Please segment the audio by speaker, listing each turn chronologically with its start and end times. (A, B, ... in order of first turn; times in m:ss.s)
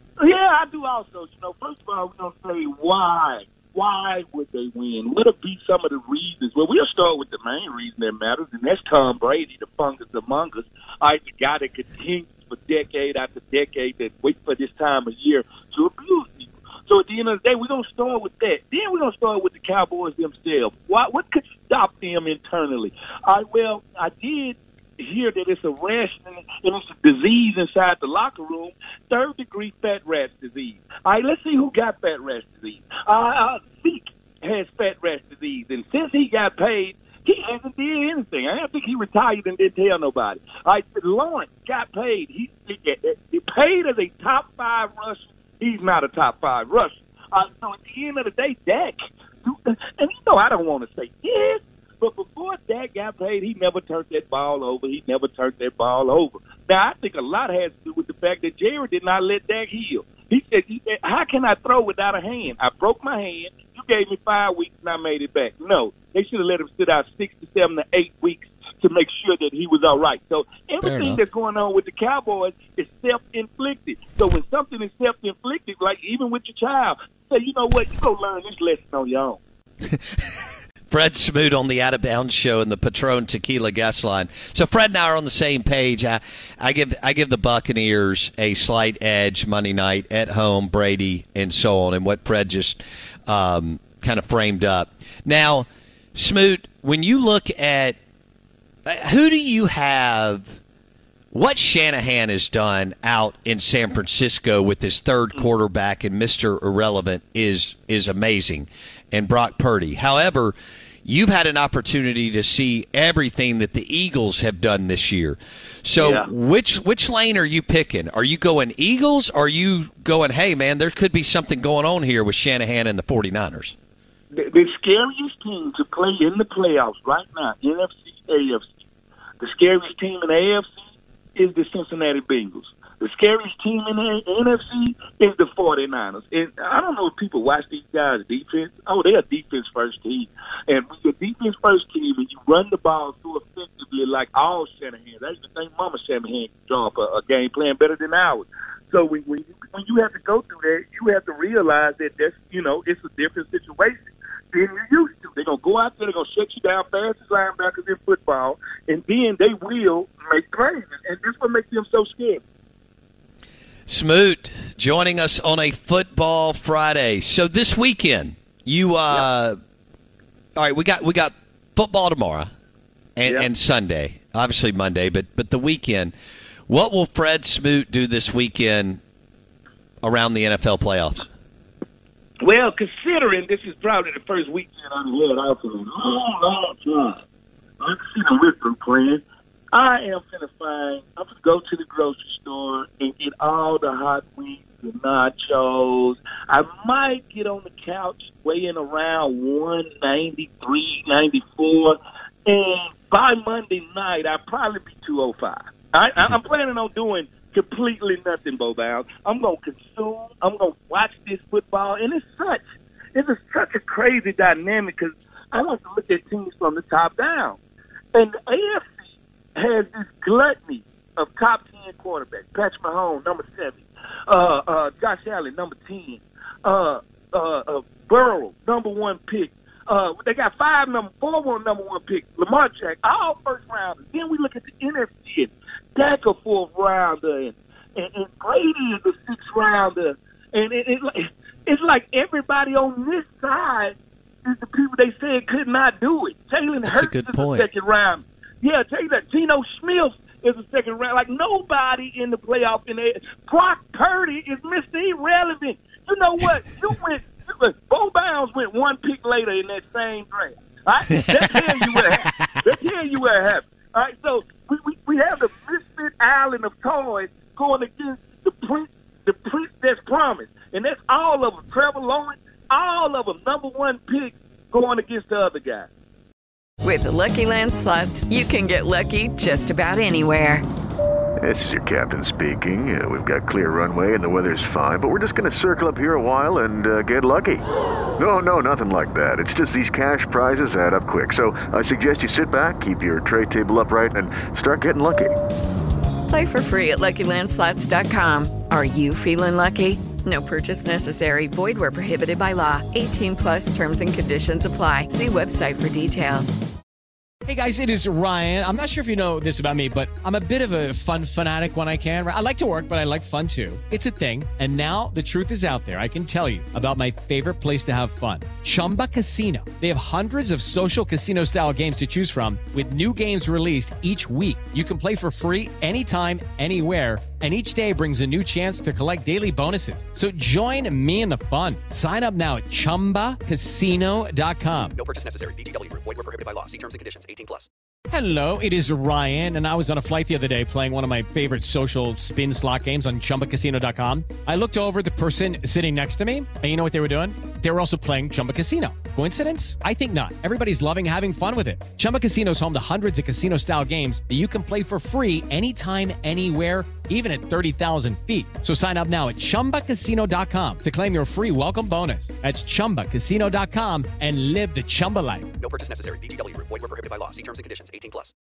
0:00.2-1:19.4 A
1:10.8-1:11.2 B
1:20.9-1:38.0 B
1:38.9-1:40.6 B
1:41.3-2:03.7 B
1:56.0-1:56.3 A
2:04.3-2:08.6 A
2:09.4-2:42.4 A
2:43.9-2:49.5 B
2:50.6-2:52.5 B
2:53.2-2:56.1 B
2:53.2-2:53.5 A
2:56.7-2:59.0 B
3:00.0-3:01.3 B
3:02.4-3:07.2 A
3:07.8-3:09.2 A
3:09.7-3:32.6 A
3:33.1-3:37.6 A
3:38.1-3:39.0 A
3:39.6-4:35.9 A
4:06.8-4:07.7 B
4:21.3-4:22.1 B
4:36.8-4:40.6 C
4:41.4-4:47.6 D
4:48.2-4:55.3 D
4:56.3-5:06.6 C
5:07.4-5:35.0 E
5:35.0-5:37.7 F
5:38.1-6:05.5 E
6:05.6-6:08.3 F